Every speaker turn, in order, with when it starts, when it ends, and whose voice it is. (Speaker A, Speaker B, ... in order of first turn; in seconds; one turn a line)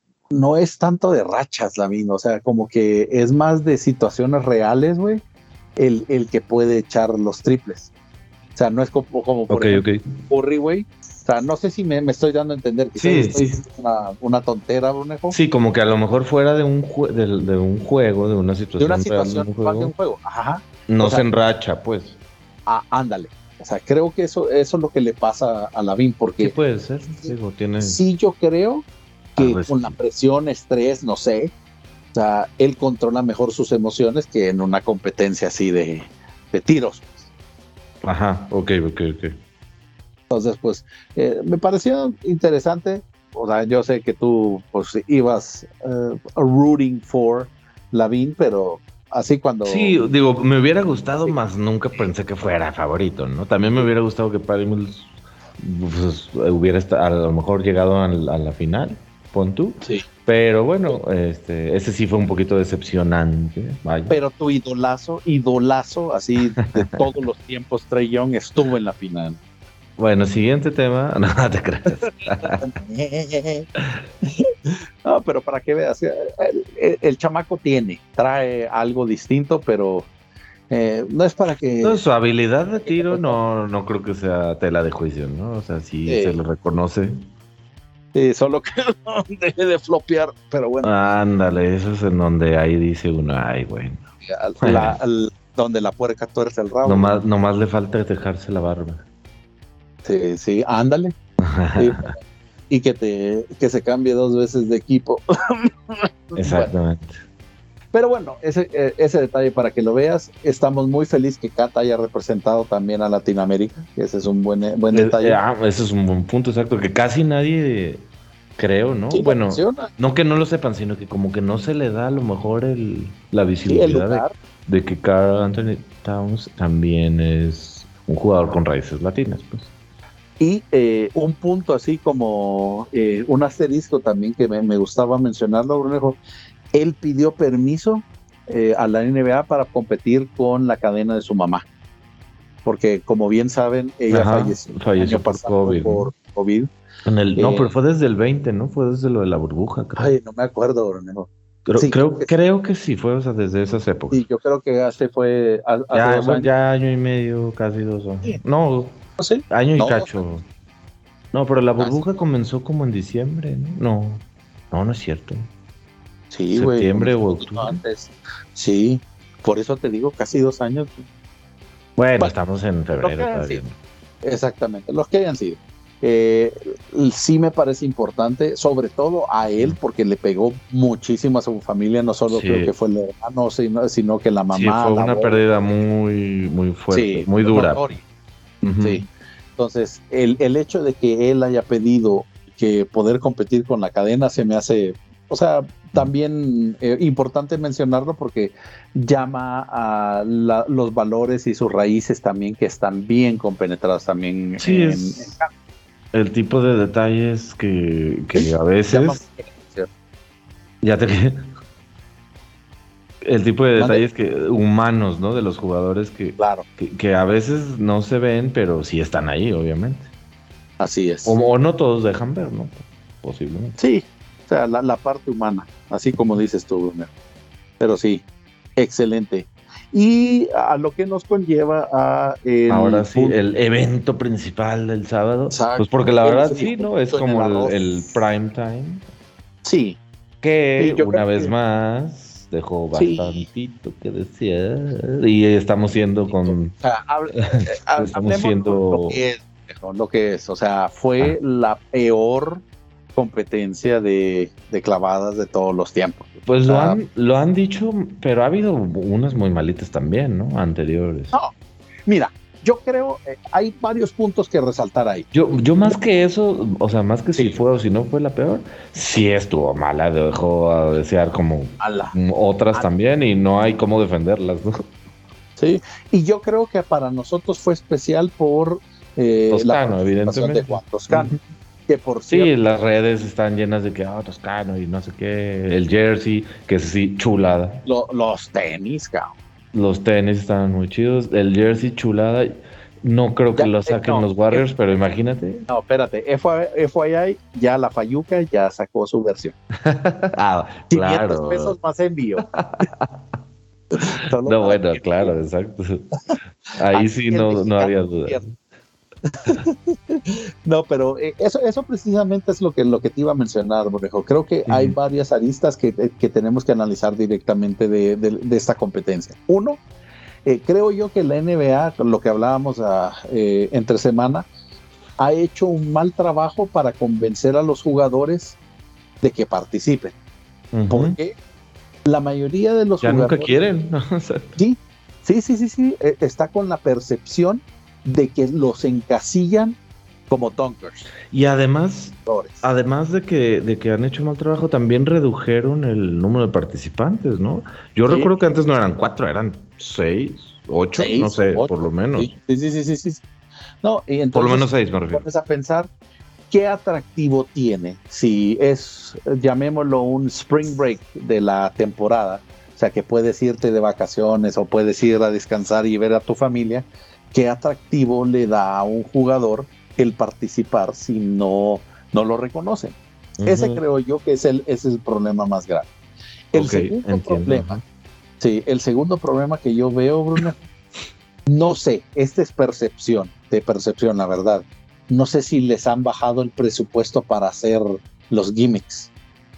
Speaker A: 0.3-5.2
Speaker A: 5.8-7.9
Speaker A: 8.6-15.4
Speaker B: 9.5-10.1
Speaker B: 13.0-13.6
Speaker B: 15.3-19.9
Speaker A: 18.8-21.2
Speaker B: 20.9-22.2
Speaker A: 22.7-26.6
Speaker B: 26.4-28.0
Speaker A: 27.3-31.5
Speaker B: 29.4-30.0
Speaker A: 32.1-37.1
Speaker B: 38.0-39.4
Speaker A: 40.3-50.0
Speaker B: 49.6-64.2
Speaker A: 64.1-69.4
Speaker B: 70.0-72.7
Speaker A: 72.0-73.7
Speaker A: 75.0-80.1
Speaker A: 80.7-82.0
Speaker B: 81.8-87.2
Speaker A: 82.8-83.4
Speaker A: 86.1-86.4
Speaker A: 88.1-90.9
Speaker B: 90.8-94.0
Speaker A: 94.2-97.2
Speaker B: 94.6-95.0
Speaker B: 96.8-99.0
Speaker A: 100.0-101.2
Speaker B: 101.4-102.1
Speaker A: 101.8-106.7
Speaker B: 106.4-107.2
Speaker A: 107.9-115.4
Speaker B: 114.9-118.0
Speaker B: 118.6-129.7
Speaker A: 119.1-119.9
Speaker A: 123.7-124.3
Speaker A: 130.4-136.2
Speaker A: 136.7-141.7
Speaker A: 142.7-146.7
Speaker B: 144.1-146.1
Speaker B: 147.1-150.1
Speaker A: 147.4-147.7
Speaker A: 150.0-152.3
Speaker B: 151.7-154.2
Speaker A: 154.1-156.5
Speaker B: 155.9-159.0
Speaker A: 159.2-160.2
Speaker B: 159.5-160.4
Speaker B: 161.3-165.4
Speaker A: 161.8-162.1
Speaker A: 166.3-171.0
Speaker B: 166.5-167.8
Speaker B: 172.0-173.8
Speaker A: 173.0-173.6
Speaker A: 174.2-185.4
Speaker B: 182.3-182.7
Speaker B: 184.5-187.9
Speaker A: 186.9-188.0
Speaker B: 188.6-189.0
Speaker A: 189.6-205.5
Speaker B: 204.6-205.3
Speaker B: 206.1-209.2
Speaker A: 208.3-209.9
Speaker B: 210.8-211.4
Speaker B: 213.2-220.1
Speaker A: 213.8-214.0
Speaker A: 216.4-216.7
Speaker A: 220.8-221.4
Speaker B: 221.2-223.8
Speaker A: 223.8-227.1
Speaker A: 227.8-228.2
Speaker A: 228.8-233.4
Speaker B: 232.7-239.0
Speaker A: 235.5-238.1
Speaker A: 239.6-240.0
Speaker B: 240.4-246.8
Speaker A: 240.8-241.5
Speaker A: 242.9-243.5
Speaker A: 246.3-252.6
Speaker B: 247.3-249.2
Speaker A: 253.2-257.0
Speaker B: 256.5-261.3
Speaker A: 262.1-265.3
Speaker B: 265.3-274.8
Speaker A: 271.8-272.2
Speaker A: 275.6-281.4
Speaker B: 279.5-281.4
Speaker A: 281.9-282.5
Speaker B: 282.3-287.8
Speaker A: 287.9-289.3
Speaker B: 289.7-295.6
Speaker A: 293.6-294.6
Speaker A: 295.7-299.6
Speaker B: 299.8-301.8
Speaker A: 300.9-302.5
Speaker B: 302.5-303.1
Speaker A: 303.9-305.3
Speaker B: 304.1-306.1
Speaker B: 306.8-308.4
Speaker A: 306.9-308.4
Speaker A: 309.3-319.8
Speaker B: 314.7-314.9
Speaker A: 320.4-324.5
Speaker A: 325.2-328.6
Speaker A: 329.2-330.1
Speaker B: 330.7-331.2
Speaker A: 330.9-331.4
Speaker A: 332.1-333.6
Speaker B: 333.0-334.6
Speaker A: 334.6-339.8
Speaker A: 340.3-341.1
Speaker B: 341.3-352.3
Speaker A: 342.3-342.6
Speaker A: 351.0-353.2
Speaker A: 353.8-355.9
Speaker B: 354.3-355.2
Speaker A: 356.5-375.9
Speaker B: 373.4-373.8
Speaker A: 376.5-377.8
Speaker B: 376.5-377.8
Speaker A: 378.4-380.6
Speaker A: 381.5-389.1